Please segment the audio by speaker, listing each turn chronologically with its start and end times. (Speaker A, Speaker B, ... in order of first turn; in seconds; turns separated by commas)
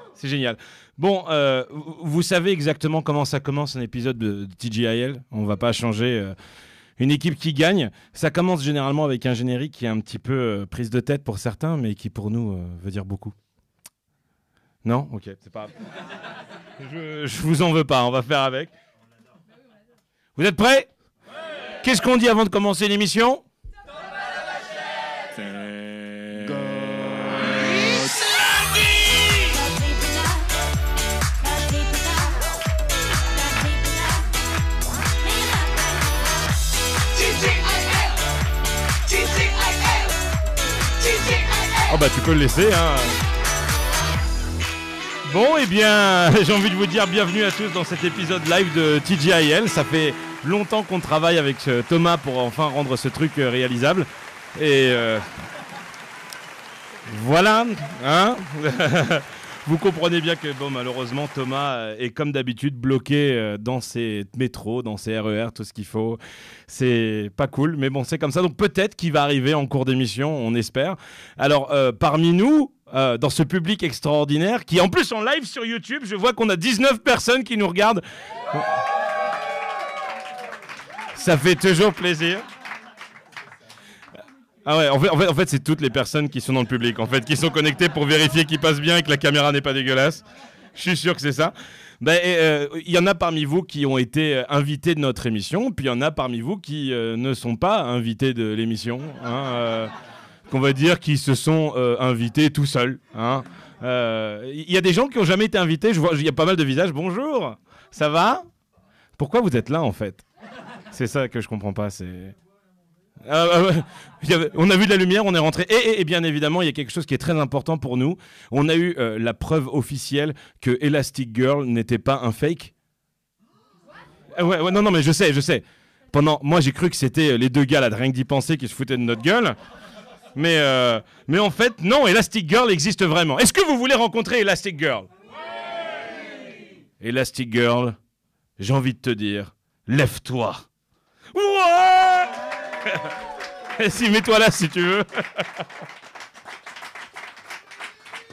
Speaker A: 0.2-6.3, Speaker A: 7.0-13.3, Speaker A: 14.8-15.7, Speaker A: 16.8-18.7, Speaker A: 20.4-20.9, Speaker A: 21.8-23.4, Speaker A: 26.1-26.5, Speaker A: 41.9-43.2, Speaker A: 45.3-55.3, Speaker A: 57.1-78.7, Speaker A: 81.1-82.4, Speaker A: 84.7-90.2, Speaker A: 90.8-99.9, Speaker A: 100.5-108.5, Speaker A: 109.2-110.2, Speaker A: 110.9-112.3, Speaker A: 113.2-122.7, Speaker A: 124.3-129.6, Speaker A: 130.3-135.1, Speaker A: 137.0-138.0, Speaker A: 138.6-140.7, Speaker A: 141.3-143.1, Speaker A: 143.8-145.5